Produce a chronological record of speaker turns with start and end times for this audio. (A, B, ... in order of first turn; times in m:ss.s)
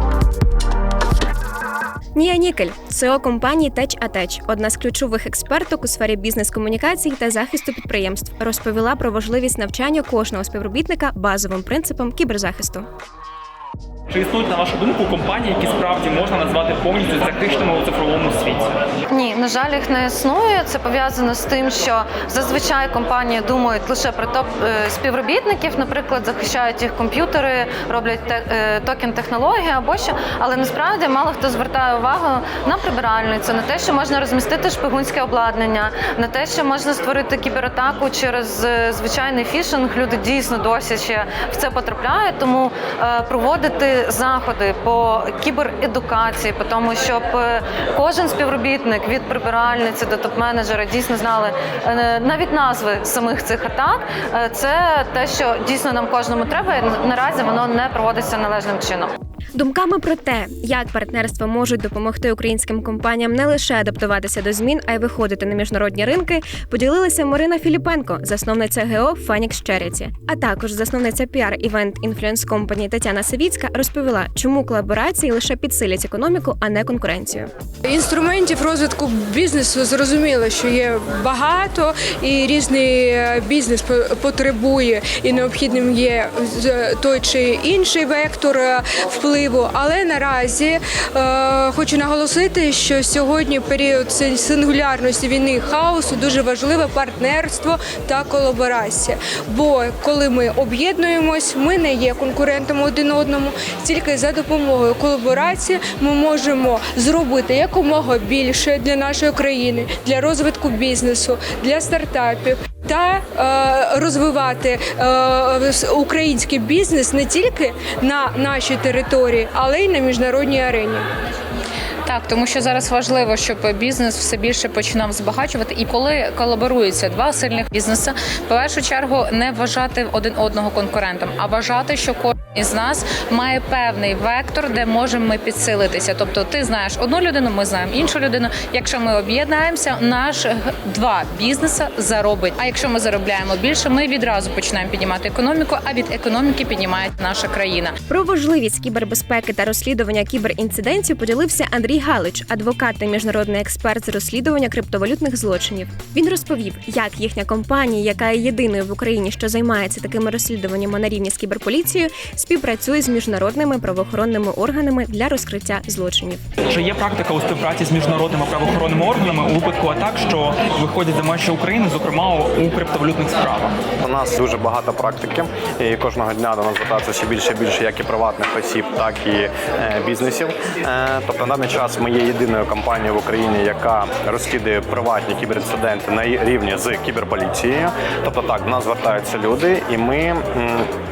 0:02.1-0:12.9 A
0:14.1-0:18.8 B
0:19.1-0:59.1 C
0:59.5-1:17.5 A
1:17.8-2:01.0 D
2:02.0-2:28.0 E
2:28.1-2:46.4 A
2:46.7-2:53.8 B
2:54.0-3:10.9 F